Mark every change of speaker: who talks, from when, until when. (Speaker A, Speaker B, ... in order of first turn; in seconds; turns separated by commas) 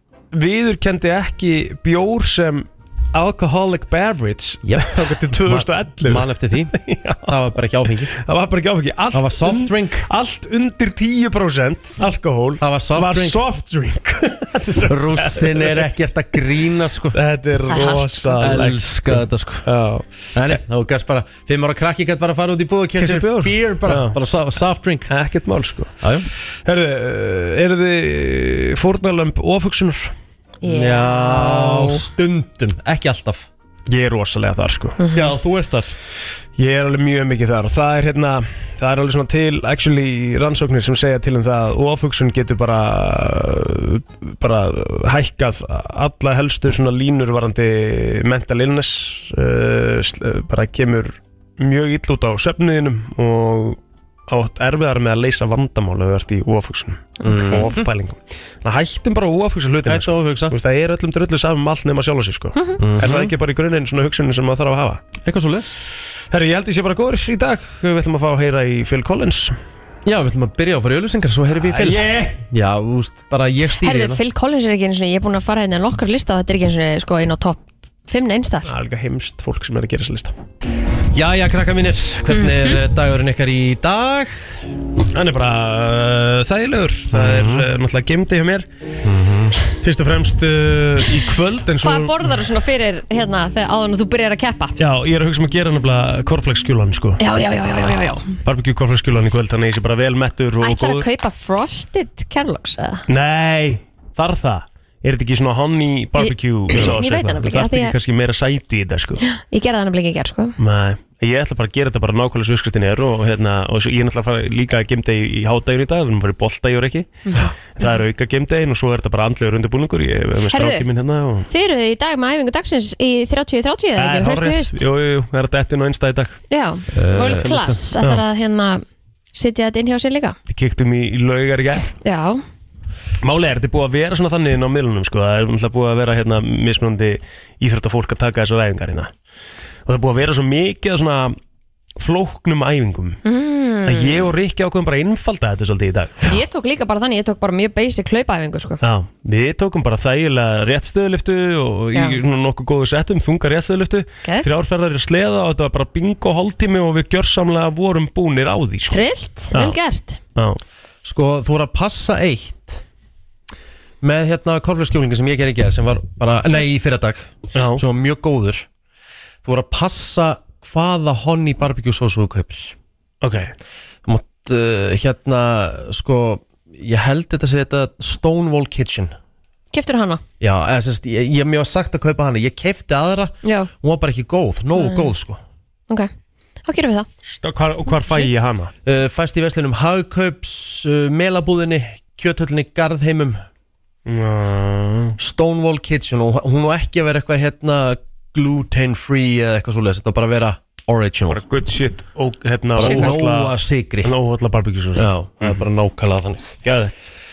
Speaker A: 0.3-7.4, Speaker B: 4.6-8.1, Speaker A: 8.1-15.9, Speaker B: 9.1-10.1, Speaker B: 12.6-13.4, Speaker B: 14.8-17.2, Speaker A: 17.1-20.6, Speaker C: 17.7-18.5, Speaker B: 18.4-19.6, Speaker B: 20.3-25.1, Speaker A: 23.0-24.2, Speaker A: 25.1-26.1, Speaker B: 26.0-26.3, Speaker A: 26.6-30.1, Speaker C: 30.6-32.0, Speaker B: 30.6-33.5, Speaker A: 33.9-35.0, Speaker C: 35.0-35.3, Speaker B: 35.1-35.9, Speaker A: 36.6-53.8, Speaker A: 54.3-65.0, Speaker C: 57.2-57.6, Speaker B: 57.3-57.9, Speaker B: 59.9-60.5, Speaker B: 62.8-63.3, Speaker B: 65.2-65.8, Speaker A: 66.3-69.6, Speaker B: 70.0-74.2, Speaker A: 71.6-72.4, Speaker C: 73.8-78.7, Speaker A: 78.7-80.3, Speaker B: 81.1-84.7, Speaker C: 82.3-82.8, Speaker A: 85.1-88.7, Speaker B: 87.1-87.7, Speaker B: 89.0-89.6, Speaker A: 89.8-92.3, Speaker C: 91.8-94.8, Speaker A: 94.8-97.2, Speaker C: 97.2-98.3, Speaker A: 98.4-101.1, Speaker C: 100.6-103.0, Speaker A: 103.1-109.2, Speaker C: 106.2-107.9, Speaker C: 109.2-110.5, Speaker A: 110.6-121.5, Speaker C: 117.3-118.0, Speaker C: 120.5-120.8, Speaker C: 121.5-124.8, Speaker A: 124.0-126.4, Speaker C: 126.5-130.3, Speaker B: 126.9-127.8, Speaker A: 130.5-131.9, Speaker C: 132.0-132.4, Speaker A: 133.2-139.1, Speaker A: 139.8-141.4, Speaker A: 142.0-143.2, Speaker C: 143.2-144.3, Speaker A: 143.8-146.3, Speaker C: 146.2-148.8, Speaker A: 148.8-159.8, Speaker C: 151.9-152.2, Speaker C: 154.2-154.5, Speaker C: 158.9-160.2, Speaker B: 161.0-162.8, Speaker B: 164.0-168.7, Speaker A: 167.5-167.8, Speaker B: 169.4-172.7, Speaker A: 173.2-173.5, Speaker B: 174.0-179.2, Speaker C: 179.7-180.2, Speaker B: 180.4-185.4, Speaker C: 183.4-183.7, Speaker C: 184.8-185.1, Speaker C: 186.7-187.1, Speaker A: 187.3-188.7, Speaker B: 188.8-193.4, Speaker A: 194.1-195.2, Speaker B: 195.2-201.4, Speaker A: 201.3-205.6, Speaker B: 202.8-204.1, Speaker C: 202.8-203.1, Speaker B: 204.9-206.6, Speaker A: 206.6-207.0